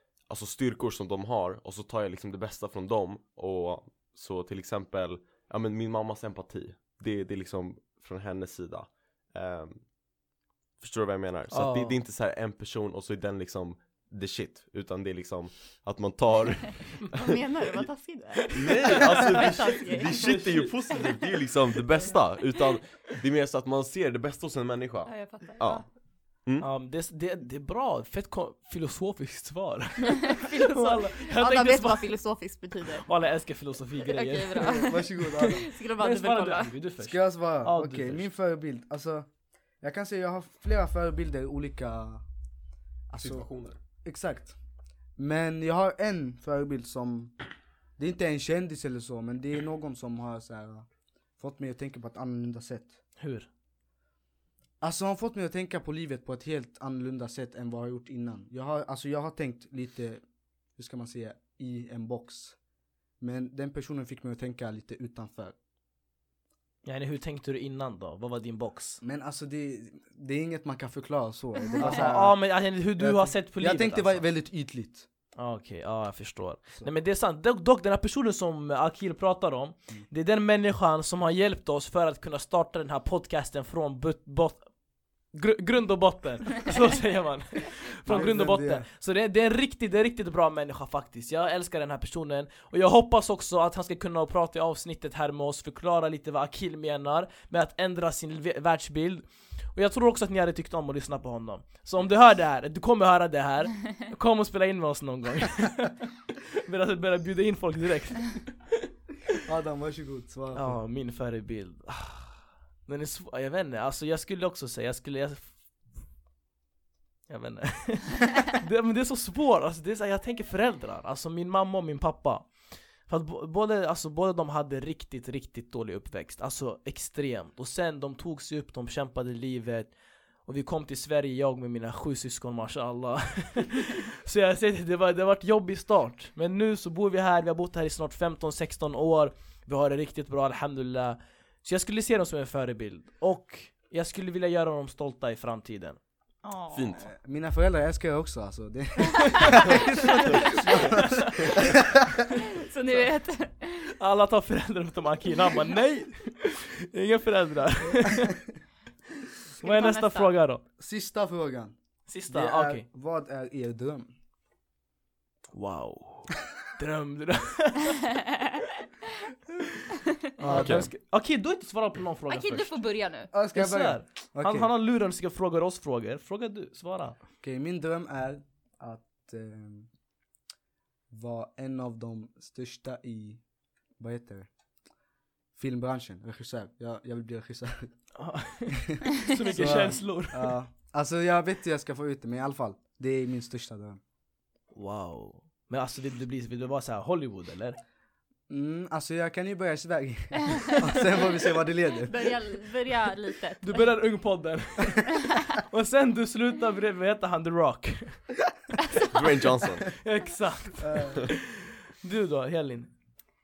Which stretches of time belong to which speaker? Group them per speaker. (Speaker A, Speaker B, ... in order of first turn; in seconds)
Speaker A: 0.3-9.8, 10.8-17.3, 18.5-25.8, 43.2-43.8, 146.7-147.0, 170.5-170.9, 209.1-209.9
Speaker B: 11.5-12.0, 18.6-20.5, 26.6-32.2, 32.9-38.3, 53.2-53.5, 66.8-69.0, 71.8-74.3, 75.4-84.7, 85.3-108.6, 110.5-115.5, 117.3-122.5, 123.1-129.9, 130.4-146.0, 150.4-151.2, 154.0-158.4, 159.6-160.6, 162.1-162.8, 165.5-168.2, 170.4-172.8, 173.5-177.2, 188.2-190.5, 194.7-197.8, 203.6-208.2, 209.9-212.9
Speaker C: 17.1-21.2, 25.1-25.9, 30.2-33.1, 34.0-36.7, 146.4-147.1, 150.1-150.7, 152.3-153.9, 159.6-160.3, 172.3-173.3, 202.1-203.8, 205.1-205.4, 208.9-209.5
Speaker D: 34.6-35.6, 37.0-39.3, 39.8-42.2, 43.1-44.5, 45.2-47.3, 48.0-50.9, 51.4-53.0, 54.8-60.2, 60.8-62.6, 63.2-65.5, 69.0-75.1, 88.1-88.9, 109.4-110.8, 147.0-152.1, 160.8-161.8, 162.3-164.1, 170.4-170.9, 173.3-174.7, 177.4-179.9, 181.1-183.4, 184.0-184.5, 185.6-187.9, 189.5-194.0, 198.5-202.1, 210.8-211.2